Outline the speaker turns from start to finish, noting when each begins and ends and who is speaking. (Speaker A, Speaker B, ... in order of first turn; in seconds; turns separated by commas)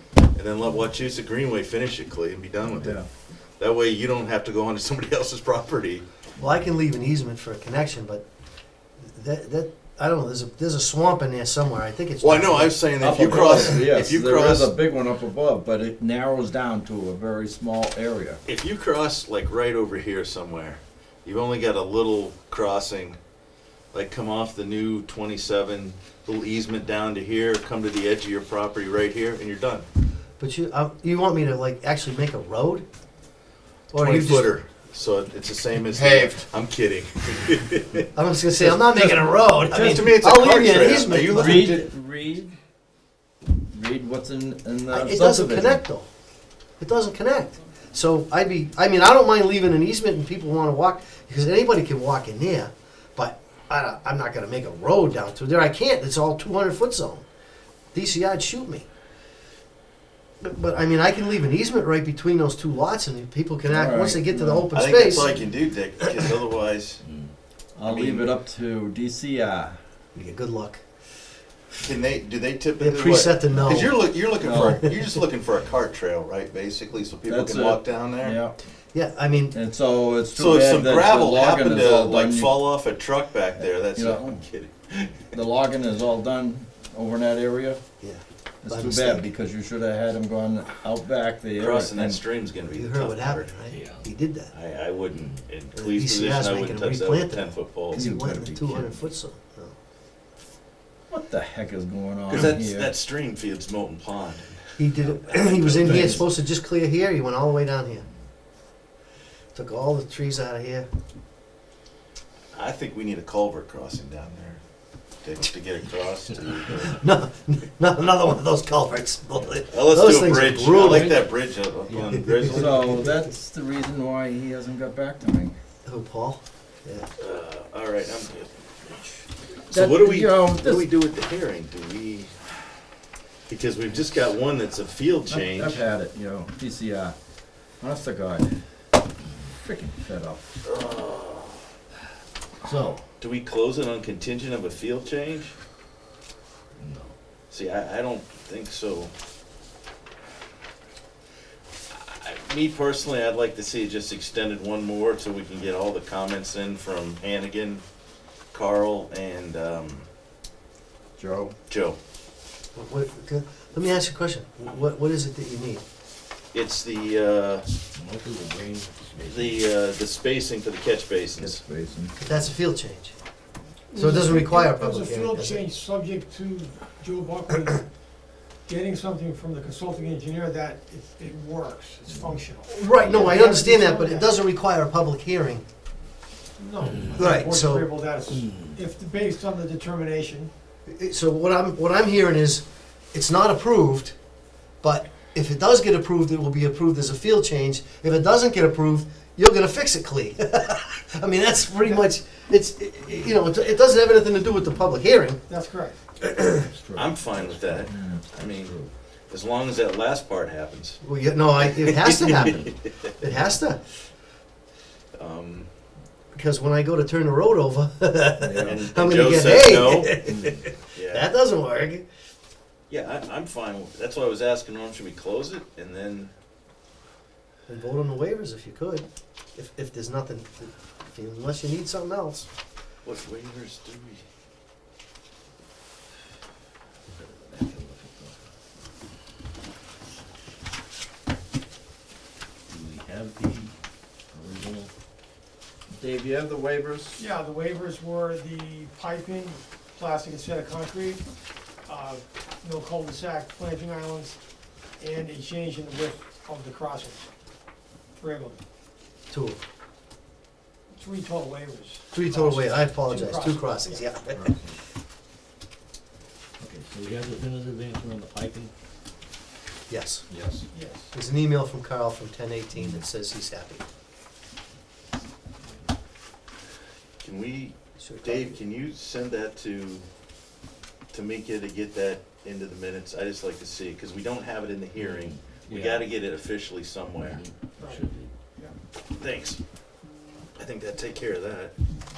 Speaker A: 0.3-3.0, Speaker B: 2.7-3.1, Speaker A: 3.6-6.0, Speaker C: 6.4-8.2, Speaker C: 9.0-12.8, Speaker A: 12.2-14.7, Speaker B: 13.0-18.4, Speaker A: 18.4-23.2, Speaker A: 23.9-29.9, Speaker C: 30.4-32.9, Speaker C: 33.9-34.5, Speaker A: 34.0-38.0, Speaker C: 38.1-41.8, Speaker B: 38.5-40.0, Speaker A: 39.6-41.9, Speaker B: 41.2-42.6, Speaker B: 43.7-45.8, Speaker C: 44.9-46.1, Speaker C: 46.8-57.2, Speaker C: 57.9-58.9, Speaker C: 60.4-65.3, Speaker B: 63.7-64.8, Speaker A: 64.7-67.0, Speaker C: 66.0-66.3, Speaker B: 67.8-69.8, Speaker A: 67.8-68.3, Speaker C: 70.2-70.8, Speaker A: 71.8-78.4, Speaker C: 72.8-74.0, Speaker B: 74.4-74.8, Speaker C: 74.7-75.2, Speaker B: 77.3-78.6, Speaker C: 78.9-79.6, Speaker B: 79.5-82.6, Speaker A: 80.3-85.3, Speaker B: 83.8-84.4, Speaker B: 85.3-87.8, Speaker C: 88.0-89.3, Speaker B: 88.6-92.2, Speaker A: 91.5-93.5, Speaker C: 92.7-94.5, Speaker A: 94.5-98.0, Speaker C: 95.7-99.8, Speaker B: 97.9-99.1, Speaker B: 101.1-102.9, Speaker A: 102.3-104.5, Speaker C: 104.8-108.1, Speaker A: 105.0-106.3, Speaker B: 105.8-106.2, Speaker C: 109.5-110.9, Speaker A: 112.5-114.6, Speaker A: 115.2-117.0, Speaker C: 116.8-121.2, Speaker A: 119.7-122.9, Speaker C: 122.1-123.2, Speaker B: 122.5-125.6, Speaker C: 125.8-127.1, Speaker A: 127.2-128.6, Speaker A: 129.7-132.3, Speaker B: 129.7-130.9, Speaker A: 133.5-135.8, Speaker B: 135.3-137.2, Speaker B: 137.8-138.5, Speaker B: 139.5-140.4, Speaker A: 140.7-141.6, Speaker B: 142.6-143.0, Speaker A: 143.2-145.5, Speaker D: 146.8-147.1, Speaker A: 147.5-149.1, Speaker A: 151.9-157.8, Speaker A: 158.5-160.1, Speaker B: 161.2-161.6, Speaker A: 161.7-162.0, Speaker C: 162.8-165.8, Speaker A: 166.5-167.7, Speaker D: 168.0-169.6, Speaker A: 169.2-171.6, Speaker B: 171.4-172.2, Speaker C: 172.2-173.1, Speaker E: 173.9-177.8, Speaker C: 174.0-175.6, Speaker E: 178.7-184.3, Speaker C: 182.7-185.6, Speaker E: 186.6-190.5, Speaker D: 186.9-187.2, Speaker C: 187.2-187.9, Speaker D: 188.4-188.8, Speaker C: 190.9-194.2, Speaker C: 194.8-205.4, Speaker E: 205.5-206.0, Speaker C: 206.2-206.7, Speaker B: 206.6-208.9, Speaker A: 206.9-208.8, Speaker A: 209.3-211.0, Speaker C: 211.0-213.8, Speaker A: 211.7-212.9, Speaker A: 215.2-215.7, Speaker C: 216.3-222.1, Speaker B: 218.4-218.9, Speaker A: 218.6-220.2, Speaker B: 220.3-220.7, Speaker A: 220.9-221.3, Speaker A: 222.9-226.3, Speaker C: 227.7-232.5, Speaker A: 233.0-234.2, Speaker D: 237.4-238.3, Speaker D: 242.7-243.7, Speaker D: 244.3-244.9, Speaker B: 245.9-247.2, Speaker E: 247.2-251.2, Speaker E: 251.9-254.4, Speaker E: 255.0-257.2, Speaker E: 258.2-258.6, Speaker C: 259.3-259.6, Speaker E: 260.9-264.1, Speaker C: 262.1-264.5, Speaker B: 264.4-264.7, Speaker D: 266.6-268.7, Speaker C: 269.9-270.3, Speaker B: 270.3-270.6, Speaker E: 270.7-271.1, Speaker C: 271.1-273.8, Speaker A: 277.2-280.1, Speaker C: 278.0-278.6, Speaker A: 281.1-287.4, Speaker D: 285.0-286.0, Speaker D: 287.2-288.3, Speaker E: 287.8-288.8, Speaker A: 289.1-289.6, Speaker A: 290.6-291.7